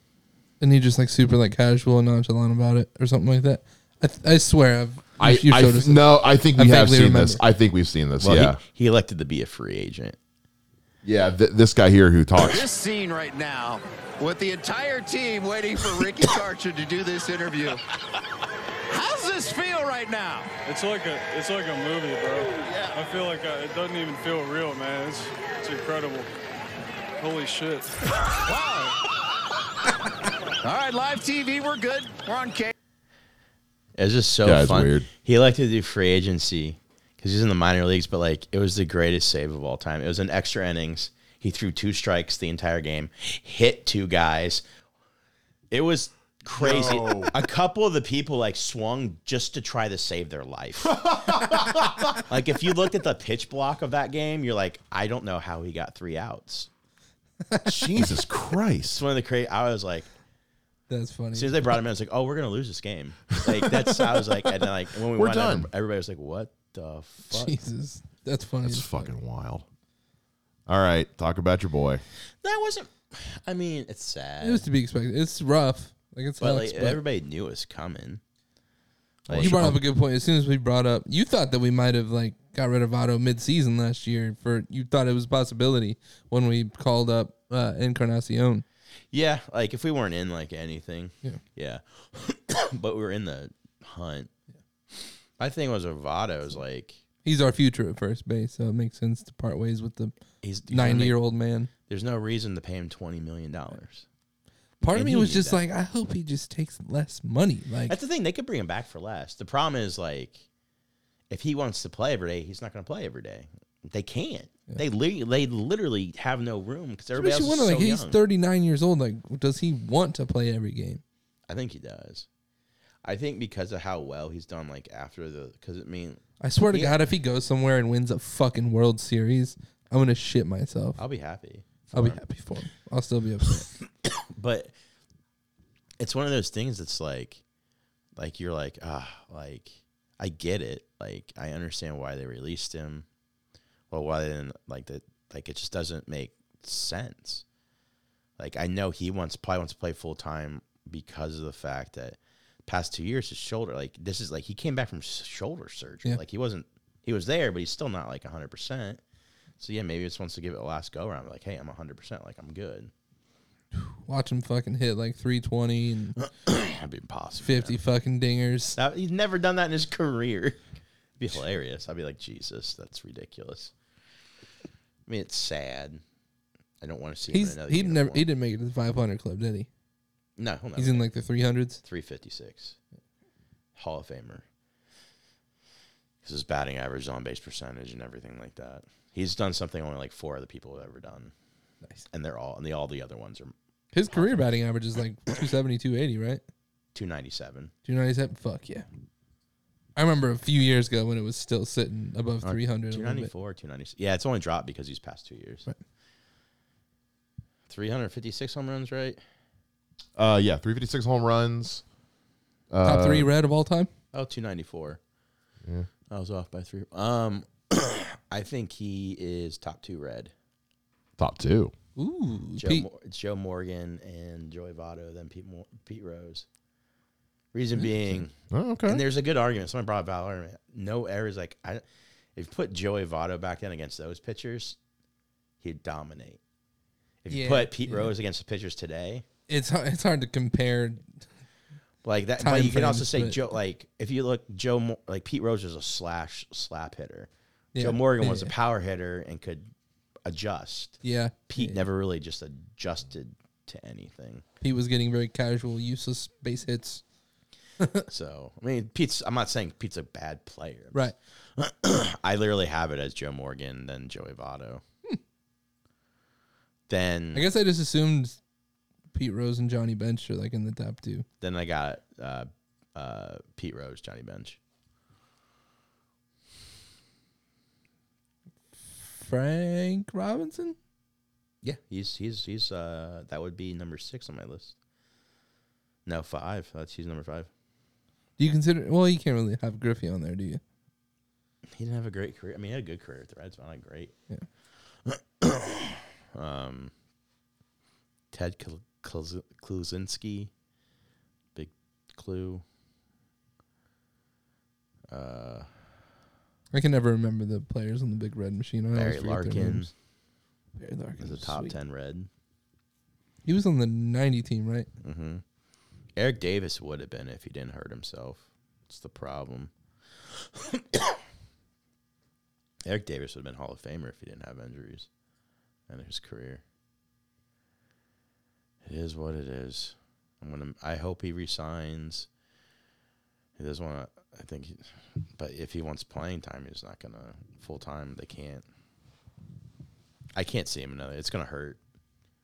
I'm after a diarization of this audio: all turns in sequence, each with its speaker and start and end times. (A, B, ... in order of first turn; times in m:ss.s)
0:00.6-0:07.4 A
0:05.2-0:08.6 B
0:08.2-0:10.2 C
0:11.0-0:12.6 B
0:12.4-0:17.8 D
0:18.9-0:20.6 D
0:20.6-0:26.3 E
0:22.4-0:23.0 D
0:27.2-0:27.9 E
0:28.4-0:28.9 D
0:30.6-0:32.7 D
0:34.0-0:44.6 C
0:34.4-0:35.1 B
0:45.7-0:51.6 C
0:46.5-0:47.3 B
0:50.8-0:52.2 B
0:52.1-0:56.7 C
0:57.5-0:57.8 A
0:57.6-0:59.0 B
0:58.9-1:00.1 C
1:00.9-1:01.5 A
1:01.3-1:07.6 C
1:03.4-1:04.2 B
1:05.1-1:05.7 B
1:07.3-1:09.1 A
1:08.6-1:09.6 B
1:10.7-1:12.0 B
1:12.4-1:14.6 C
1:14.4-1:17.0 A
1:16.4-1:18.2 C
1:19.3-1:19.8 B
1:19.3-1:19.7 C
1:19.3-1:28.6 A
1:29.1-1:34.3 C
1:35.4-1:37.0 C
1:37.2-1:40.1 A
1:40.4-1:41.2 C
1:40.7-1:41.7 A
1:41.9-1:44.0 C
1:44.8-1:47.9 A
1:44.9-1:45.6 C
1:47.9-1:50.4 C
1:51.3-1:58.2 C
1:57.1-2:01.0 A
2:01.5-2:02.2 C
2:03.0-2:07.0 C
2:06.4-2:11.0 A
2:11.0-2:12.2 C
2:11.9-2:13.7 A
2:14.2-2:14.7 C
2:16.0-2:17.4 C
2:18.2-2:23.0 C
2:23.9-2:27.4 C
2:28.4-2:39.0 C
2:39.6-2:42.9 C
2:43.8-2:46.2 A
2:46.2-2:47.8 C
2:47.4-2:48.8 A
2:48.8-2:50.6 C
2:51.2-2:53.7 C
2:55.1-2:56.0 C
2:56.8-2:58.2 C
2:57.3-2:59.7 A
3:00.4-3:01.1 C
3:00.8-3:01.8 A
3:01.8-3:02.8 C
3:03.8-3:04.4 C
3:06.2-3:11.3 C
3:12.1-3:13.5 C
3:13.9-3:16.4 A
3:14.1-3:14.4 C
3:16.9-3:17.7 C
3:17.9-3:18.8 A
3:20.0-3:23.3 A
3:22.4-3:25.6 C
3:27.7-3:29.2 C
3:30.2-3:31.8 B
3:32.7-3:33.3 B
3:32.8-3:33.9 A
3:34.1-3:35.0 C
3:36.1-3:40.3 C
3:41.2-3:41.7 B
3:42.0-3:42.8 A
3:42.6-3:46.4 C
3:47.5-3:48.3 C
3:48.5-3:49.0 B
3:48.8-3:51.8 C
3:52.4-3:54.8 C
3:55.6-3:56.4 C
3:57.2-3:59.2 C
3:57.3-3:58.1 A
3:59.5-4:01.0 A
4:02.0-4:09.7 C
4:02.4-4:03.4 A
4:07.7-4:08.5 A
4:10.2-4:14.4 C
4:11.0-4:11.8 A
4:14.6-4:17.0 A
4:17.8-4:18.0 A
4:18.1-4:24.8 C
4:26.9-4:27.5 C
4:27.3-4:28.4 A
4:29.1-4:31.2 A
4:31.4-4:34.6 C
4:39.1-4:40.8 A
4:41.6-4:44.7 C
4:46.0-4:47.5 C
4:48.4-4:50.6 A
4:51.8-4:54.1 C
4:55.0-4:56.9 C
4:58.3-5:00.5 C
5:01.5-5:02.6 C
5:05.1-5:05.7 C
5:06.7-5:09.9 A
5:08.9-5:09.9 C
5:10.8-5:11.7 A
5:11.2-5:12.3 C
5:13.4-5:14.9 A
5:15.0-5:15.4 C
5:16.2-5:19.7 C
5:20.5-5:21.2 C
5:22.8-5:25.1 C
5:25.9-5:26.6 C
5:28.8-5:32.3 C
5:33.6-5:34.8 C
5:35.4-5:38.6 C
5:40.3-5:41.8 C